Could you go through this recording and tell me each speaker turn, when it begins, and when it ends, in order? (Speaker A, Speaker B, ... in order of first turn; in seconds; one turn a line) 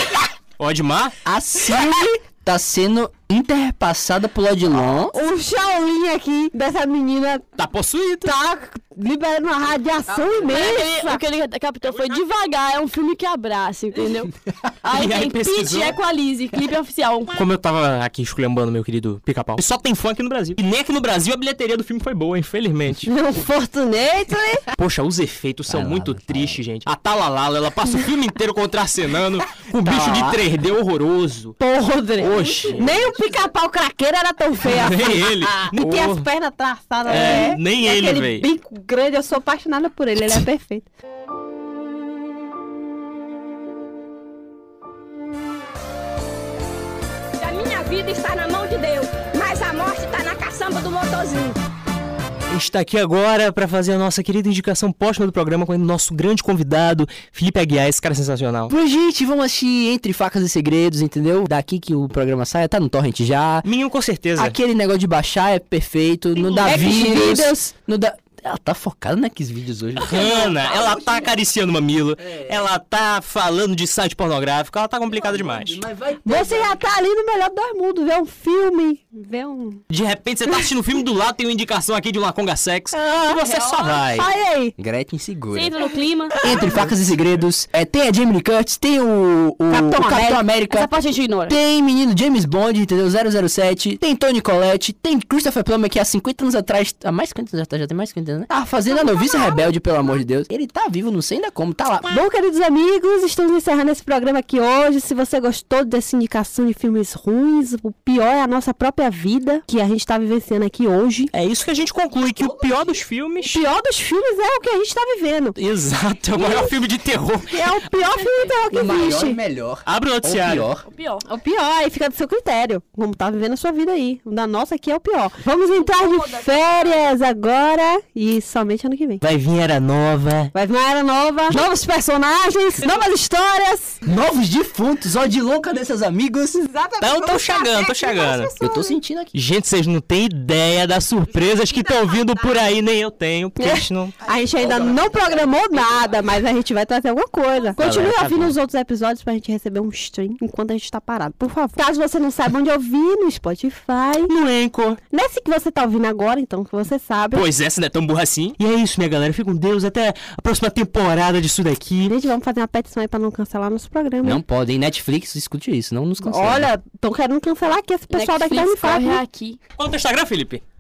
Speaker A: 0.6-1.1
Speaker B: 1.2-5.2
Speaker C: 5.1-7.5
Speaker A: 7.6-8.3
Speaker C: 8.2-11.2
Speaker B: 10.1-10.8
Speaker D: 10.4-14.3
Speaker A: 11.9-12.3
Speaker D: 14.8-17.3
Speaker A: 14.9-16.0
Speaker A: 17.4-23.1
Speaker C: 23.1-24.7
Speaker A: 24.8-31.6
Speaker B: 25.7-26.6
Speaker B: 29.9-30.4
Speaker C: 31.6-40.9
Speaker A: 32.2-33.4
Speaker A: 34.6-36.3
Speaker A: 37.0-38.5
Speaker E: 47.4-51.6
Speaker A: 52.5-58.7
Speaker B: 58.7-63.7
Speaker A: 63.6-64.5
Speaker B: 64.4-71.4
Speaker A: 66.4-67.5
Speaker C: 66.6-67.7
Speaker A: 70.0-75.8
Speaker B: 72.2-72.7
Speaker B: 75.1-76.9
Speaker C: 76.2-79.8
Speaker A: 79.9-84.3
Speaker C: 82.9-84.8
Speaker B: 84.8-85.8
Speaker D: 85.5-86.7
Speaker B: 86.4-90.9
Speaker C: 89.7-90.4
Speaker D: 90.7-91.6
Speaker B: 91.5-102.1
Speaker C: 102.1-111.3
Speaker A: 111.3-113.6
Speaker C: 113.4-115.6
Speaker A: 115.6-117.9
Speaker C: 116.4-116.7
Speaker C: 117.5-119.4
Speaker D: 118.2-118.6
Speaker B: 118.7-120.8
Speaker A: 119.9-120.7
Speaker D: 120.8-121.2
Speaker C: 121.3-129.2
Speaker D: 125.8-127.1
Speaker A: 129.2-130.5
Speaker C: 130.5-134.0
Speaker B: 134.1-136.7
Speaker C: 136.7-139.0
Speaker A: 137.0-138.5
Speaker B: 138.6-139.3
Speaker A: 139.3-144.2
Speaker C: 143.6-154.3
Speaker A: 147.8-148.6
Speaker A: 154.3-155.0
Speaker C: 155.1-157.5
Speaker A: 157.3-162.2
Speaker C: 162.1-164.4
Speaker B: 164.2-166.7
Speaker C: 166.2-169.2
Speaker D: 168.1-169.6
Speaker A: 169.8-170.6